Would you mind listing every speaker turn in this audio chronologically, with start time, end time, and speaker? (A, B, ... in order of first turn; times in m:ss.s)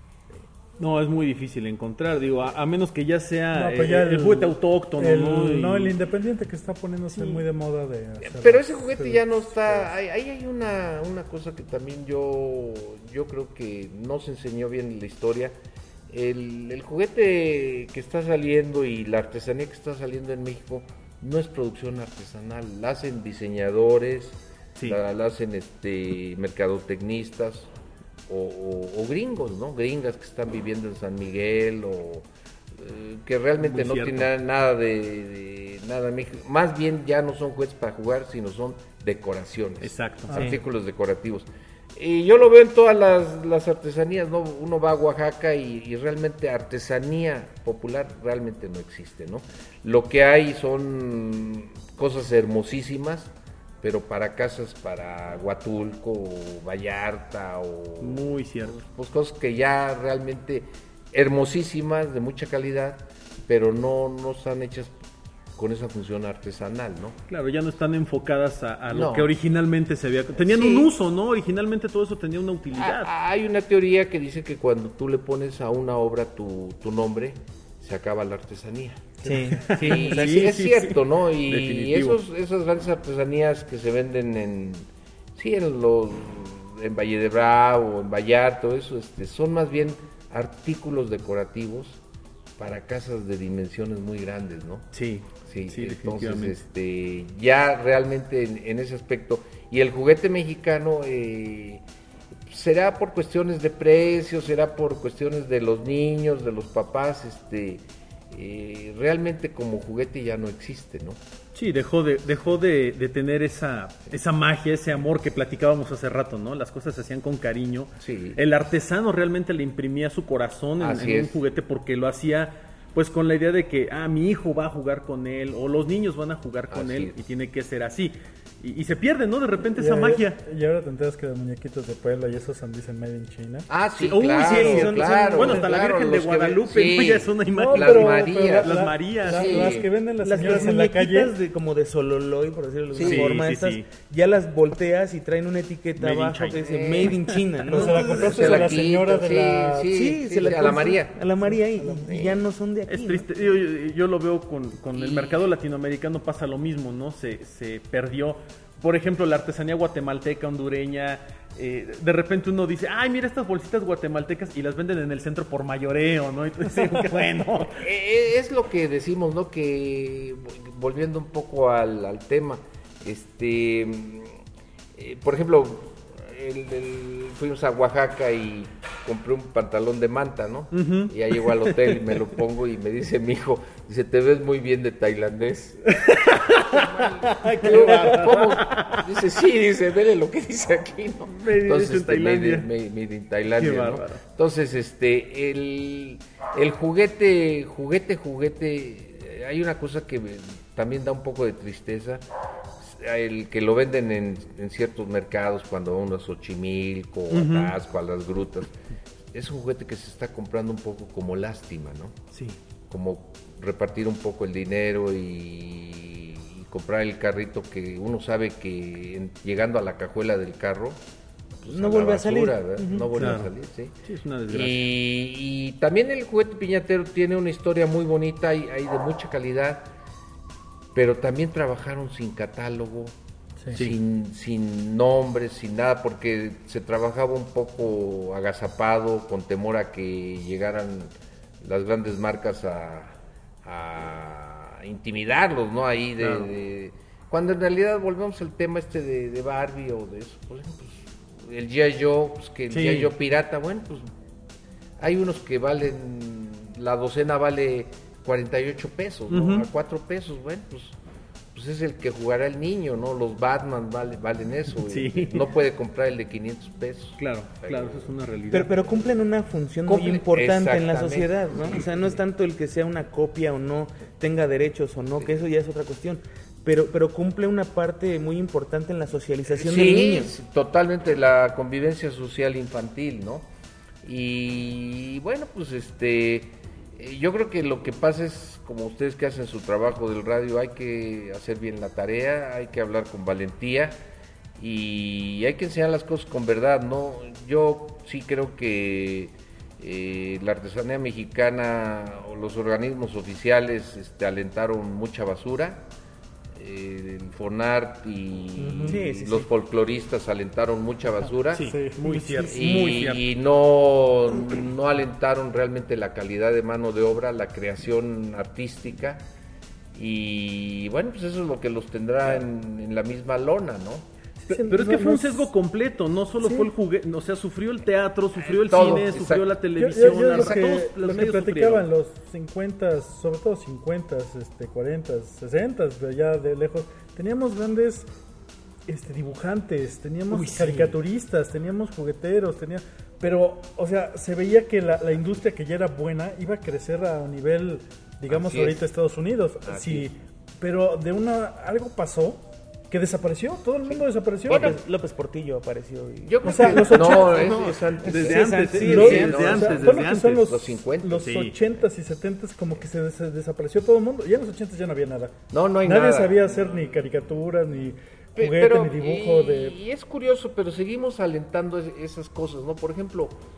0:00.8-0:06.0 A
0:03.5-0:09.9 B
0:07.1-0:07.4 A
0:08.2-0:15.6 C
0:16.1-0:27.7 C
0:28.3-1:04.9 C
0:33.6-0:34.3 A
0:39.8-0:40.5 A
0:58.0-0:58.8 A
1:05.6-1:07.2 C
1:07.3-1:13.1 A
1:08.9-1:09.3 C
1:10.4-1:10.9 C
1:12.8-1:19.1 C
1:19.2-1:20.5 D
1:19.6-1:22.2 A
1:19.8-1:32.0 C
1:32.6-1:34.9 C
1:34.9-1:36.6 A
1:35.4-1:41.8 C
1:42.5-1:51.2 C
1:51.5-2:10.4 A
1:58.0-1:58.4 C
2:00.8-2:01.4 C
2:06.7-2:07.2 C
2:09.8-2:10.2 D
2:10.4-2:13.7 B
2:13.7-2:19.9 C
2:14.0-2:19.8 A
2:14.4-2:15.7 D
2:17.5-2:21.4 B
2:20.2-2:28.7 D
2:22.9-2:23.4 C
2:23.0-2:23.8 A
2:26.0-2:28.8 A
2:26.5-2:27.2 C
2:27.7-2:29.9 B
2:28.1-2:31.2 C
2:29.9-2:33.3 D
2:31.4-2:32.2 B
2:32.0-2:32.4 C
2:32.9-2:47.9 A
2:35.0-2:35.4 C
2:47.7-2:54.4 C
2:55.0-3:22.2 C
3:00.7-3:02.0 A
3:05.9-3:09.1 A
3:11.3-3:12.7 A
3:13.6-3:14.2 A
3:22.8-3:28.7 C
3:27.3-3:27.8 A
3:29.3-3:32.2 C
3:32.9-3:41.0 C
3:41.6-3:44.0 C
3:41.7-3:43.4 D
3:43.0-3:43.5 A
3:44.0-3:44.8 A
3:44.5-3:49.9 C
3:50.9-3:53.2 C
3:53.7-4:14.1 C
4:06.2-4:06.5 A
4:12.7-4:13.1 A
4:15.0-4:21.0 C
4:19.3-4:19.7 A
4:21.5-4:28.1 C
4:24.8-4:25.4 A
4:27.2-4:28.7 A
4:28.5-4:40.3 D
4:29.9-4:31.8 C
4:39.5-4:43.5 C
4:44.0-4:54.0 C
4:54.6-5:05.9 C
5:06.6-5:11.7 C
5:08.6-5:09.0 B
5:08.8-5:09.5 D
5:11.5-5:13.3 A
5:11.6-5:12.7 B
5:12.5-5:19.2 C
5:19.9-5:24.1 C
5:24.5-5:25.5 B
5:24.5-5:31.9 A
5:26.4-5:26.7 B
5:28.4-5:30.8 C
5:29.8-5:38.1 B
5:38.9-5:54.8 B
5:40.3-5:41.0 A
5:48.3-5:48.8 C
5:49.6-5:50.1 C
5:53.9-5:54.8 C
5:54.5-5:59.7 D
5:56.2-6:01.8 C
5:56.4-5:57.6 B
5:58.0-6:00.5 A
5:58.8-6:09.8 B
6:01.2-6:01.6 A
6:05.5-6:07.2 C
6:08.4-6:13.4 C